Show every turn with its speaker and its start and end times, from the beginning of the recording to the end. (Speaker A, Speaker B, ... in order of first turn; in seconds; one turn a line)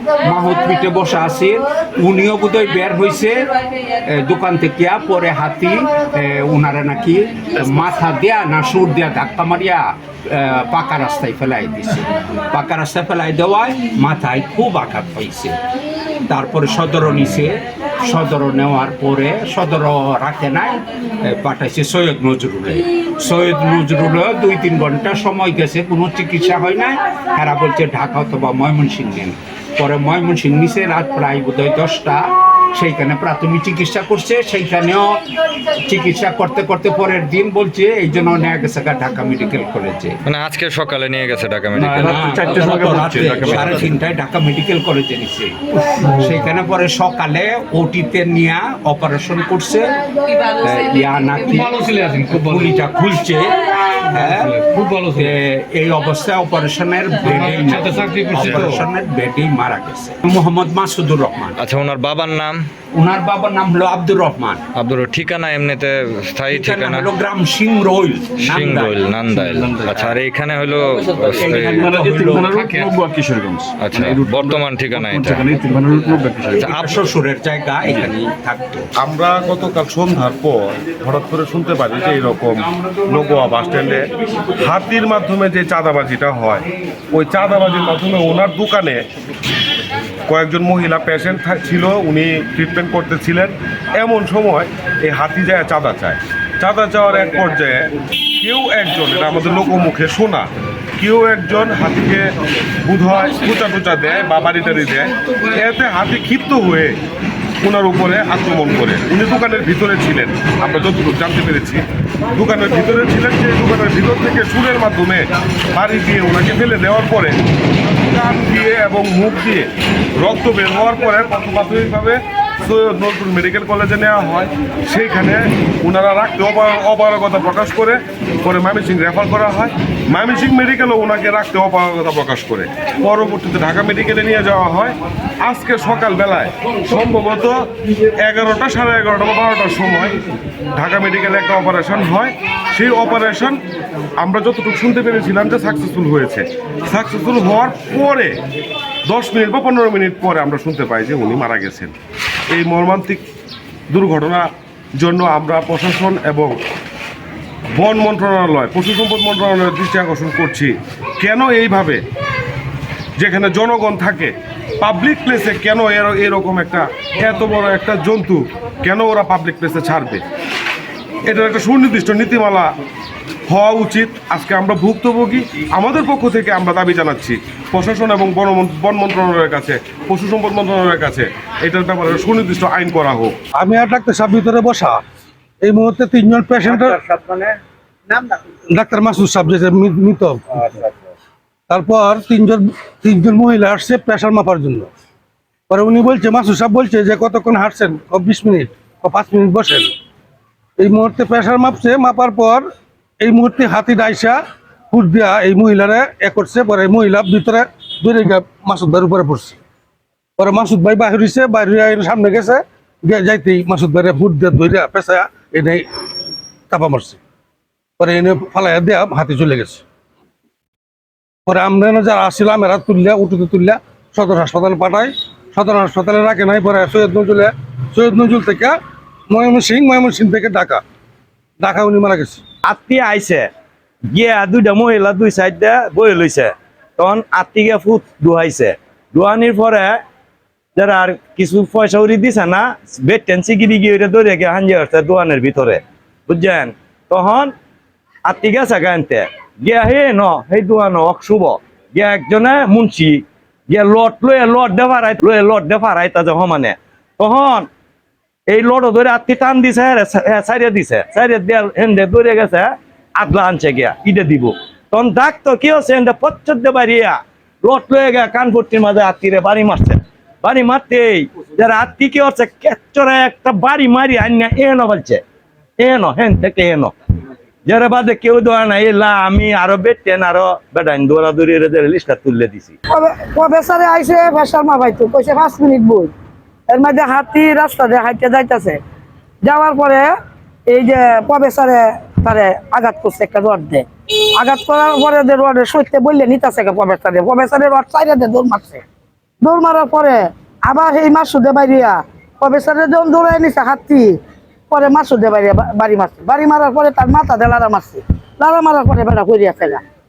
Speaker A: 0.2-15.6
Speaker A: 16.3-35.2
Speaker A: 35.8-40.2
Speaker B: 40.3-43.8
Speaker A: 42.0-49.9
Speaker A: 50.5-61.6
Speaker B: 58.3-58.7
Speaker B: 61.6-62.7
Speaker A: 62.9-64.6
Speaker B: 64.8-67.1
Speaker A: 66.5-69.0
Speaker B: 68.4-72.9
Speaker A: 71.3-72.8
Speaker B: 73.8-75.6
Speaker A: 76.5-78.9
Speaker B: 76.5-77.1
Speaker C: 79.0-89.0
Speaker C: 90.3-102.3
Speaker C: 102.8-107.0
Speaker C: 107.6-117.4
Speaker C: 118.0-119.7
Speaker C: 120.2-137.6
Speaker C: 138.2-140.2
Speaker C: 140.7-143.6
Speaker C: 144.2-148.4
Speaker C: 149.1-151.9
Speaker C: 152.5-153.2
Speaker C: 153.9-154.5
Speaker C: 155.0-156.5
Speaker C: 157.8-162.0
Speaker C: 163.2-170.2
Speaker C: 171.3-172.7
Speaker C: 173.5-183.4
Speaker D: 183.6-185.0
Speaker D: 185.6-187.0
Speaker E: 186.7-187.6
Speaker D: 188.7-190.6
Speaker D: 191.7-194.9
Speaker D: 195.7-199.9
Speaker D: 200.8-202.7
Speaker D: 203.2-204.4
Speaker D: 204.9-209.6
Speaker D: 210.4-215.9
Speaker D: 216.7-217.2
Speaker D: 218.0-219.8
Speaker D: 221.5-228.8
Speaker D: 229.3-230.8
Speaker D: 231.6-232.4
Speaker E: 232.7-233.5
Speaker E: 234.1-240.0
Speaker E: 240.8-247.5
Speaker E: 248.3-257.7
Speaker E: 258.5-275.2
Speaker E: 275.8-276.9
Speaker E: 277.7-282.8
Speaker F: 282.9-286.1
Speaker F: 286.7-288.8
Speaker F: 289.4-290.1
Speaker F: 290.7-298.8
Speaker F: 299.4-304.2
Speaker F: 304.7-309.8